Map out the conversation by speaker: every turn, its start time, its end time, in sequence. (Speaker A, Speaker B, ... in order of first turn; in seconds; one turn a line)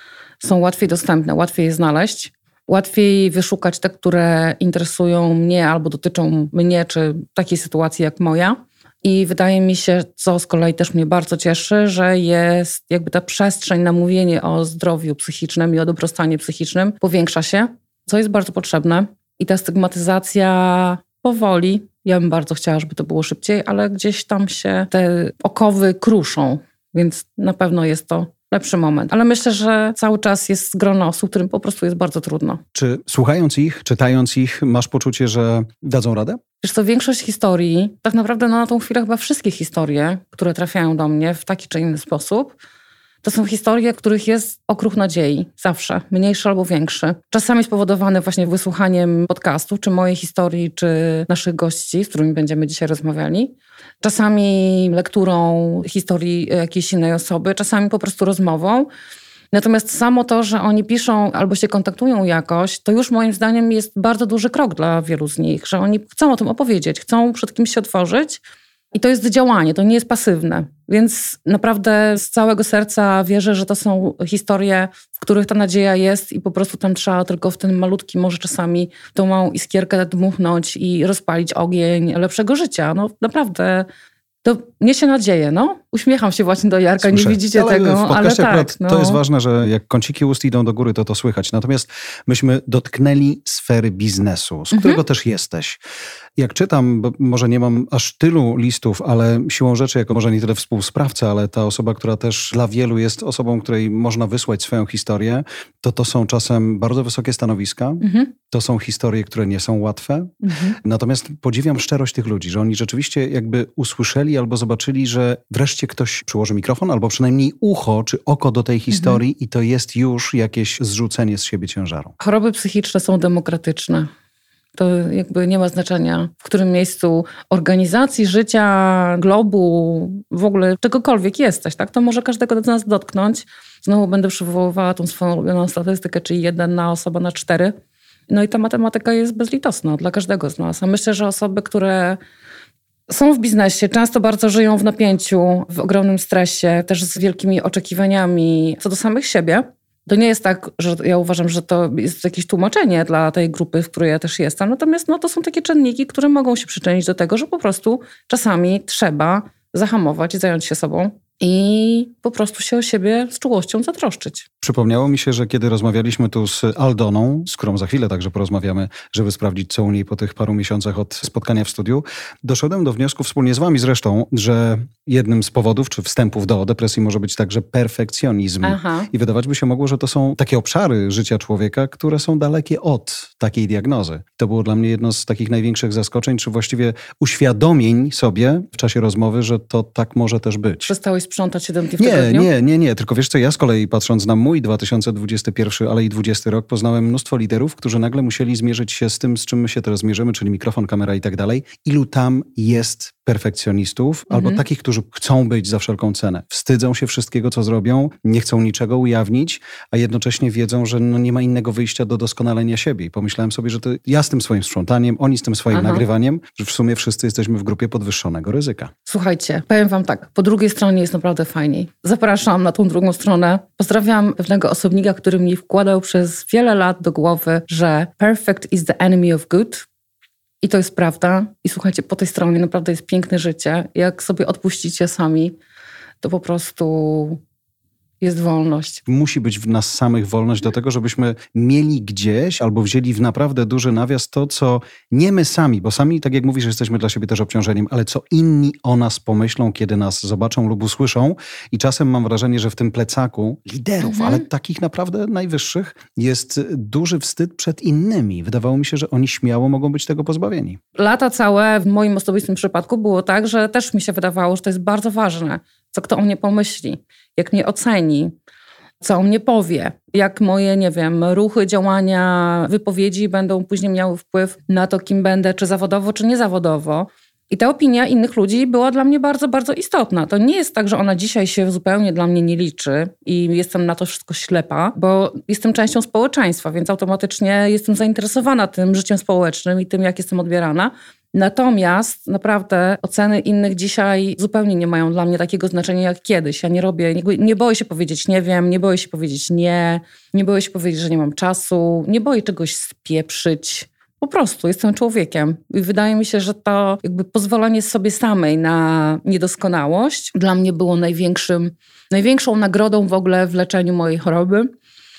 Speaker A: 0.4-32.6
Speaker B: 32.7-36.4
Speaker A: 36.6-42.6
Speaker A: 43.2-58.9
Speaker A: 59.5-68.4
Speaker A: 68.9-83.9
Speaker A: 84.4-89.2
Speaker B: 87.0-95.8
Speaker A: 94.7-95.0
Speaker B: 96.4-122.1
Speaker A: 108.0-108.3
Speaker A: 110.4-110.8
Speaker A: 118.9-119.2
Speaker A: 122.2-124.1
Speaker A: 124.8-137.8
Speaker A: 138.3-142.2
Speaker A: 143.1-164.5
Speaker B: 164.6-190.9
Speaker A: 178.6-179.1
Speaker A: 190.9-192.5
Speaker B: 192.0-218.9
Speaker A: 204.3-204.6
Speaker A: 215.7-216.0
Speaker A: 219.1-229.9
Speaker A: 230.6-235.6
Speaker A: 236.2-237.4
Speaker A: 238.2-239.0
Speaker B: 239.1-260.8
Speaker A: 254.0-254.4
Speaker A: 261.0-268.3
Speaker A: 269.0-314.7